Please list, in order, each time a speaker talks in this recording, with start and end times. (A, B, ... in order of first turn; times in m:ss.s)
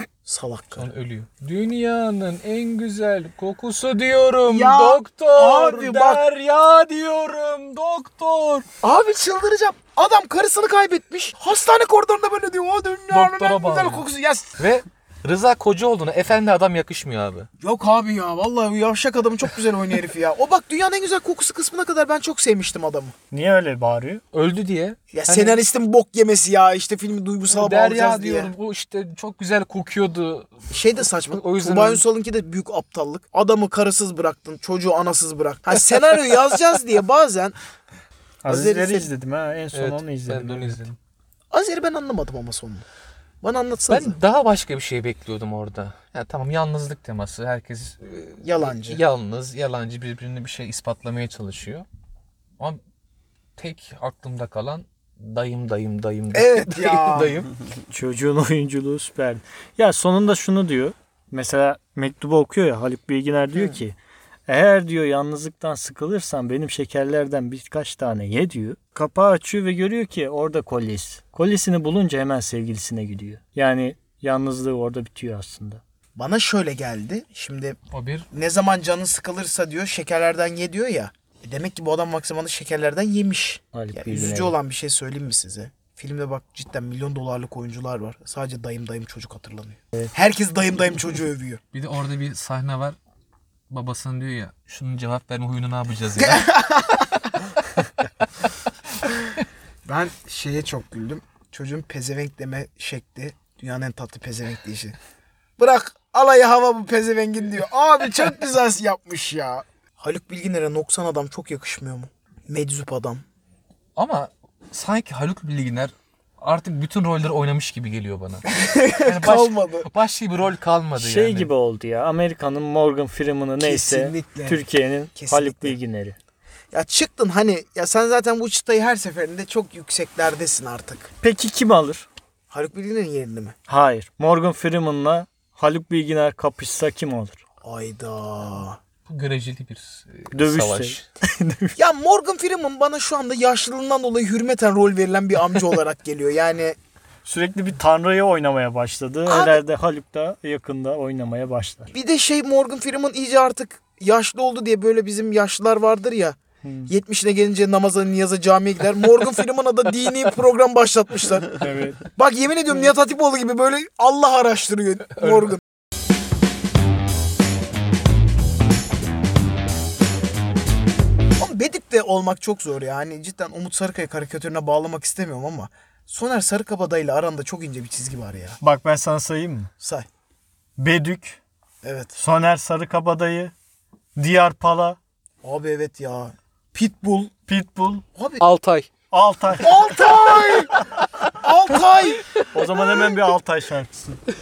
0:00.2-0:00.9 A
0:00.8-0:08.7 B
0:04.5-0:06.2 A
0:08.8-0:14.6 A
0:13.1-0:14.1 B
0:14.6-0:17.5 B
0:17.6-0:23.1 A
0:23.3-0:24.2 C
0:24.3-0:25.6 B
0:25.1-0:28.5 A
0:27.5-0:30.6 B
0:30.7-0:37.6 A
0:31.3-0:32.0 B
0:38.4-0:40.8 C
0:38.5-0:39.1 A
0:39.7-0:41.0 B
0:41.5-0:42.8 A
0:43.4-0:44.2 A
0:43.9-0:51.9 B
0:48.4-0:49.0 A
0:53.6-0:57.5 B
0:56.3-0:57.5 A
0:57.9-1:04.0 C
1:04.5-1:15.8 C
1:16.2-1:17.8 A
1:17.9-1:18.3 B
1:18.3-1:31.6 A
1:23.7-1:24.6 C
1:31.7-1:33.0 B
1:33.7-1:36.5 B
1:36.2-1:37.3 A
1:39.8-1:45.0 A
1:45.6-1:53.2 A
1:54.0-1:58.4 B
1:58.5-1:59.9 A
1:59.0-2:01.5 B
2:01.0-2:06.2 C
2:03.6-2:05.8 A
2:06.7-2:11.1 A
2:11.2-2:12.1 C
2:12.5-2:13.6 A
2:13.7-2:17.4 C
2:17.6-2:18.8 A
2:19.1-2:21.0 B
2:20.3-2:21.8 C
2:21.8-2:26.8 A
2:27.2-2:31.9 C
2:29.3-2:29.6 A
2:31.9-2:45.6 A
2:36.6-2:36.9 C
2:41.6-2:42.0 C
2:51.4-2:58.6 A
2:58.6-2:59.7 C
2:59.8-3:00.1 A
3:00.8-3:01.4 C
3:01.8-3:02.1 A
3:02.2-3:03.5 C
3:04.2-3:05.0 C
3:05.4-3:07.3 A
3:07.5-3:08.0 C
3:08.2-3:08.4 A
3:08.4-3:08.9 B
3:09.1-3:09.8 C
3:09.6-3:10.8 A
3:11.3-3:12.2 A
3:12.5-3:14.2 C